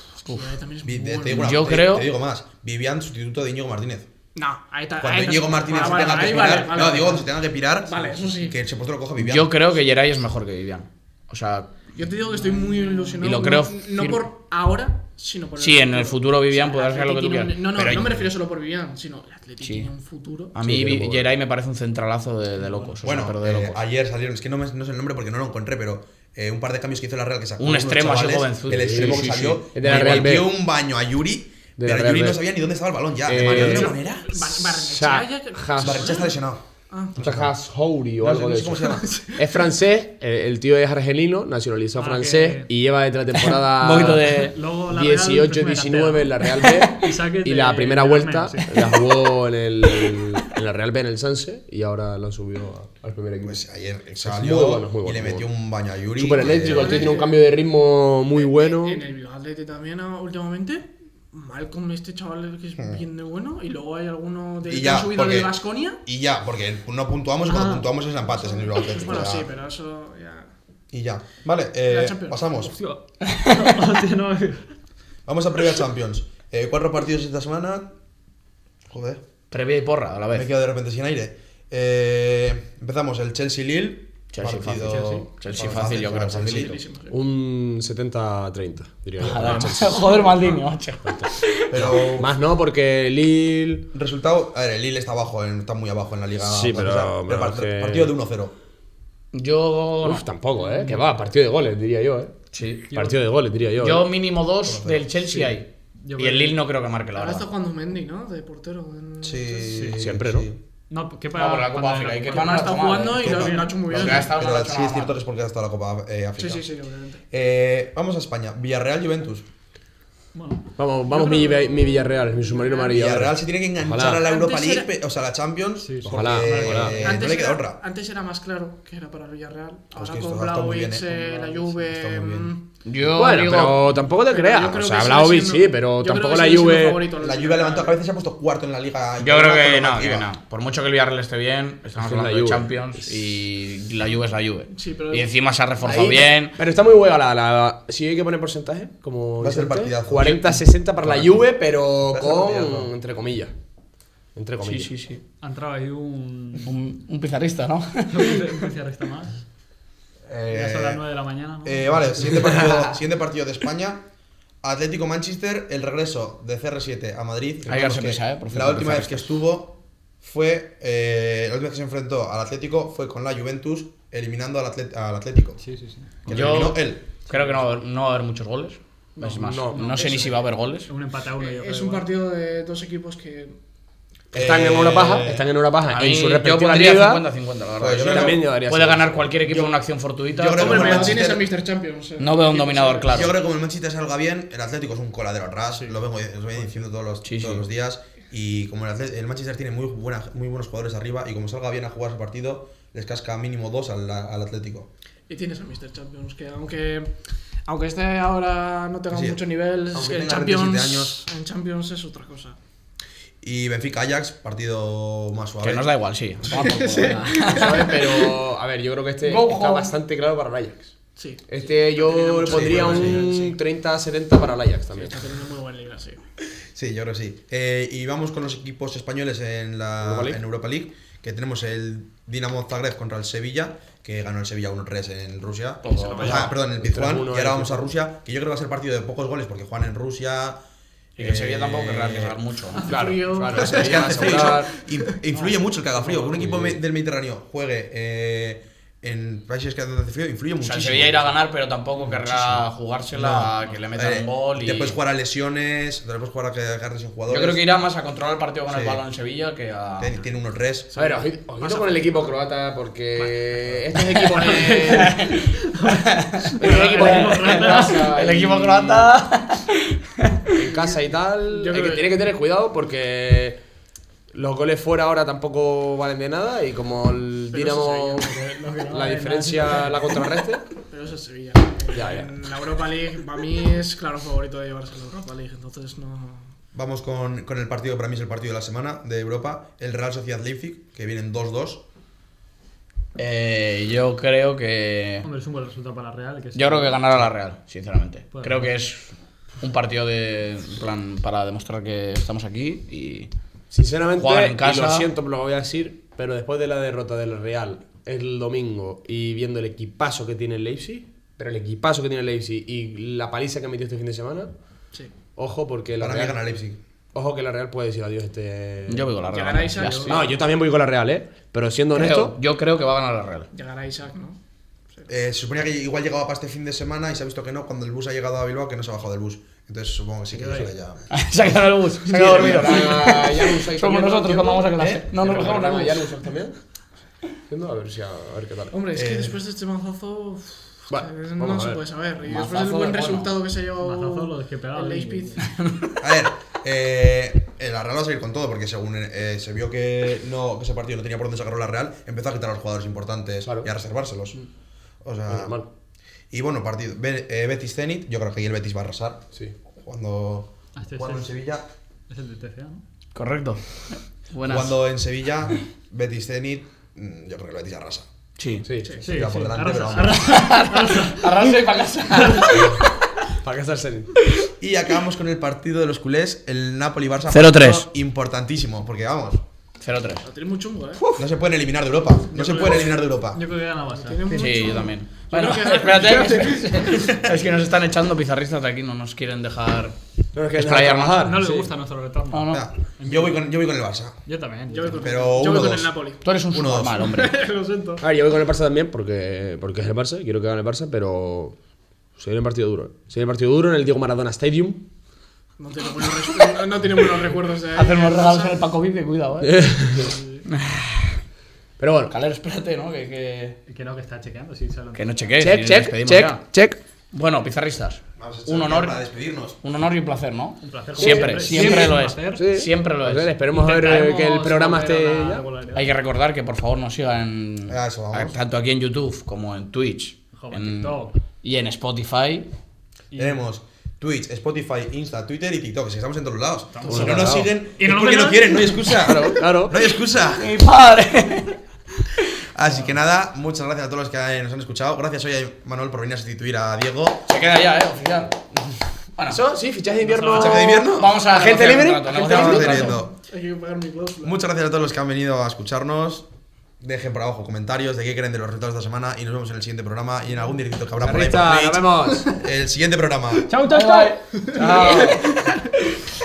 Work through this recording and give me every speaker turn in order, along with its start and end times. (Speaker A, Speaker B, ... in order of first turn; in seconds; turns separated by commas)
Speaker A: 0.2-0.5, Speaker B: 0.3-1.5, Speaker C: 0.8-4.1, Speaker A: 1.3-2.1, Speaker B: 4.3-7.3, Speaker C: 5.0-9.6, Speaker A: 5.8-6.7, Speaker B: 7.8-8.6, Speaker A: 9.2-11.9, Speaker B: 11.9-20.5, Speaker D: 12.5-13.1, Speaker A: 13.2-14.2, Speaker A: 15.6-18.3, Speaker A: 19.6-19.9, Speaker A: 20.5-23.8, Speaker E: 20.6-21.2, Speaker C: 23.0-34.8, Speaker A: 27.6-30.4, Speaker E: 28.7-30.5, Speaker E: 31.8-32.4, Speaker E: 33.2-34.0, Speaker B: 33.4-36.4, Speaker E: 34.9-36.2, Speaker C: 35.8-36.6, Speaker B: 36.9-37.1, Speaker C: 37.1-37.5, Speaker E: 37.1-44.3, Speaker C: 38.2-39.1, Speaker B: 39.0-39.5, Speaker D: 42.0-42.7, Speaker A: 43.6-44.5, Speaker D: 44.3-49.1, Speaker E: 44.9-53.6, Speaker C: 53.4-57.1, Speaker E: 54.2-55.5, Speaker E: 56.2-59.0, Speaker B: 56.4-57.4, Speaker B: 58.3-66.0, Speaker C: 62.8-63.0, Speaker C: 64.6-69.5, Speaker D: 67.5-67.8, Speaker B: 68.2-70.5, Speaker C: 70.9-72.7, Speaker B: 71.8-72.5, Speaker D: 72.6-74.7, Speaker A: 73.3-73.7, Speaker C: 75.2-77.9, Speaker C: 78.9-79.2, Speaker A: 79.5-80.5, Speaker C: 80.3-86.8, Speaker A: 84.3-86.8, Speaker E: 84.9-85.2, Speaker B: 85.5-87.1, Speaker E: 87.1-90.1, Speaker A: 89.2-92.0, Speaker B: 89.4-90.6, Speaker E: 91.0-93.9, Speaker C: 91.7-92.3, Speaker C: 93.9-98.5, Speaker E: 96.4-98.2, Speaker A: 99.3-100.2, Speaker E: 100.0-102.3, Speaker A: 102.5-102.9, Speaker D: 102.9-103.2, Speaker E: 102.9-104.1, Speaker A: 103.8-107.5, Speaker C: 104.7-105.0, Speaker D: 105.3-106.6, Speaker B: 107.1-109.9, Speaker C: 109.2-110.6, Speaker D: 109.7-110.0, Speaker E: 109.9-110.5, Speaker D: 110.9-112.8, Speaker A: 111.3-115.2, Speaker B: 112.3-114.4, Speaker C: 113.2-116.7, Speaker D: 113.3-113.8, Speaker B: 116.4-117.2, Speaker C: 117.3-119.5, Speaker D: 120.3-120.7, Speaker E: 120.8-124.2, Speaker B: 121.1-123.0, Speaker C: 122.9-127.8, Speaker B: 124.1-124.9, Speaker D: 125.8-127.2, Speaker E: 126.0-127.1, Speaker B: 127.0-132.6, Speaker C: 129.9-132.5, Speaker D: 131.4-131.7, Speaker A: 132.8-133.9, Speaker E: 133.1-137.0, Speaker B: 134.3-138.0, Speaker C: 137.2-140.3, Speaker A: 139.2-146.5, Speaker E: 142.0-143.1, Speaker B: 144.7-145.3, Speaker E: 145.8-153.5, Speaker C: 149.4-151.3, Speaker C: 152.1-152.9, Speaker E: 154.3-154.9, Speaker A: 154.6-155.2, Speaker D: 155.4-156.7, Speaker A: 156.6-158.6, Speaker D: 158.1-159.4, Speaker C: 160.2-161.1, Speaker D: 160.5-162.7, Speaker C: 161.6-164.0, Speaker C: 164.6-175.6, Speaker A: 167.7-169.3, Speaker D: 175.6-176.7, Speaker C: 176.2-177.1, Speaker A: 176.3-180.9, Speaker D: 177.3-177.7, Speaker E: 179.2-180.2, Speaker B: 179.7-180.3, Speaker D: 180.9-182.1, Speaker B: 181.4-183.6, Speaker E: 184.3-187.2, Speaker C: 184.3-185.5, Speaker A: 185.9-191.2, Speaker C: 187.8-188.4, Speaker E: 188.0-189.7, Speaker C: 190.3-191.5, Speaker B: 190.4-193.4, Speaker A: 192.2-193.3, Speaker C: 193.1-204.9, Speaker D: 195.7-196.0, Speaker A: 197.2-197.6, Speaker B: 205.3-212.6, Speaker C: 209.1-211.2, Speaker C: 213.4-215.9, Speaker A: 215.6-218.3, Speaker B: 216.5-218.0, Speaker E: 217.5-220.9, Speaker A: 219.2-219.9, Speaker B: 221.2-223.5, Speaker E: 221.5-225.2, Speaker C: 222.4-223.2, Speaker B: 225.0-226.2, Speaker C: 226.7-240.6, Speaker E: 230.0-230.4, Speaker A: 235.8-236.6, Speaker B: 235.8-236.5, Speaker E: 236.5-237.9, Speaker A: 241.2-242.9, Speaker C: 241.2-242.4, Speaker B: 242.7-245.1, Speaker E: 242.9-244.7, Speaker C: 243.5-251.3, Speaker D: 245.3-246.4, Speaker E: 246.3-246.8, Speaker A: 250.6-255.0, Speaker C: 252.1-257.7, Speaker A: 257.3-260.2, Speaker C: 258.7-259.0, Speaker C: 260.0-260.9, Speaker E: 260.9-265.3, Speaker B: 260.9-262.3, Speaker B: 263.2-265.0, Speaker A: 264.3-270.4, Speaker D: 264.5-268.0, Speaker E: 266.5-269.1, Speaker E: 270.5-273.6, Speaker B: 271.5-272.1, Speaker E: 274.3-278.3, Speaker B: 277.5-278.5, Speaker D: 278.3-280.2, Speaker E: 278.9-280.6, Speaker B: 280.9-286.5, Speaker E: 281.9-282.4, Speaker C: 286.7-291.8, Speaker A: 293.1-295.3, Speaker D: 295.2-297.1, Speaker A: 296.5-303.3, Speaker D: 298.3-298.7, Speaker E: 303.7-314.5, Speaker A: 304.2-305.1, Speaker E: 315.4-316.4, Speaker C: 316.0-316.8, Speaker E: 317.1-319.1, Speaker A: 318.9-320.2, Speaker B: 319.3-320.4, Speaker D: 319.8-320.1, Speaker E: 320.0-322.4, Speaker A: 321.9-323.5, Speaker B: 323.5-324.4, Speaker C: 325.1-331.0, Speaker D: 330.4-330.7, Speaker E: 330.4-330.7, Speaker A: 331.1-336.0, Speaker E: 332.1-336.6, Speaker E: 337.5-338.7, Speaker B: 338.7-345.4, Speaker C: 338.9-339.4, Speaker E: 340.9-341.8, Speaker A: 342.2-343.3, Speaker D: 343.8-345.4, Speaker A: 345.4-346.0, Speaker C: 346.0-354.4, Speaker E: 353.4-353.7, Speaker C: 355.0-355.6, Speaker E: 355.3-355.7, Speaker C: 356.3-361.7, Speaker D: 360.8-361.3, Speaker D: 362.1-362.8, Speaker A: 363.1-364.8, Speaker C: 364.4-368.1, Speaker A: 368.4-368.6, Speaker E: 368.6-369.0, Speaker B: 368.8-369.2, Speaker C: 369.0-370.3, Speaker D: 369.0-371.5, Speaker A: 370.1-373.1, Speaker D: 372.2-372.6, Speaker E: 373.4-374.2, Speaker C: 374.6-379.4, Speaker A: 377.3-377.9, Speaker A: 379.8-380.2, Speaker B: 380.2-381.0, Speaker C: 381.2-383.4, Speaker D: 382.4-384.8, Speaker B: 384.0-387.1, Speaker A: 384.3-389.9, Speaker C: 387.0-387.3, Speaker E: 390.3-391.7, Speaker A: 390.5-391.4, Speaker D: 391.2-393.4, Speaker A: 392.3-392.6, Speaker C: 392.5-394.2, Speaker D: 394.2-395.2, Speaker B: 394.7-396.3, Speaker C: 395.0-397.1, Speaker A: 396.2-397.4, Speaker B: 397.0-398.0, Speaker E: 398.0-401.6, Speaker E: 402.2-404.8, Speaker B: 405.6-408.6, Speaker A: 407.7-409.8, Speaker E: 409.4-410.1, Speaker B: 410.1-410.4, Speaker A: 410.5-411.1, Speaker E: 411.8-412.1, Speaker A: 412.1-413.6, Speaker D: 413.7-415.3, Speaker A: 414.9-416.4, Speaker E: 415.4-416.8, Speaker A: 417.1-419.0, Speaker C: 418.2-419.6, Speaker A: 419.6-423.3, Speaker D: 420.6-422.4, Speaker E: 420.9-425.4, Speaker D: 423.5-425.9, Speaker A: 425.7-432.5, Speaker C: 427.7-428.4, Speaker D: 430.4-431.1, Speaker D: 433.1-433.4, Speaker C: 433.1-440.6, Speaker D: 436.7-439.0, Speaker E: 436.9-437.5, Speaker E: 439.0-439.8, Speaker A: 440.1-441.6, Speaker C: 442.5-447.2, Speaker A: 447.3-448.5, Speaker E: 449.3-452.9, Speaker D: 450.0-450.6, Speaker C: 450.3-451.2, Speaker A: 450.4-453.0, Speaker C: 452.1-453.1, Speaker B: 452.4-454.4, Speaker C: 454.2-456.3, Speaker C: 456.8-463.5, Speaker E: 461.0-462.4, Speaker E: 463.5-465.2, Speaker A: 463.7-465.2, Speaker B: 464.4-465.1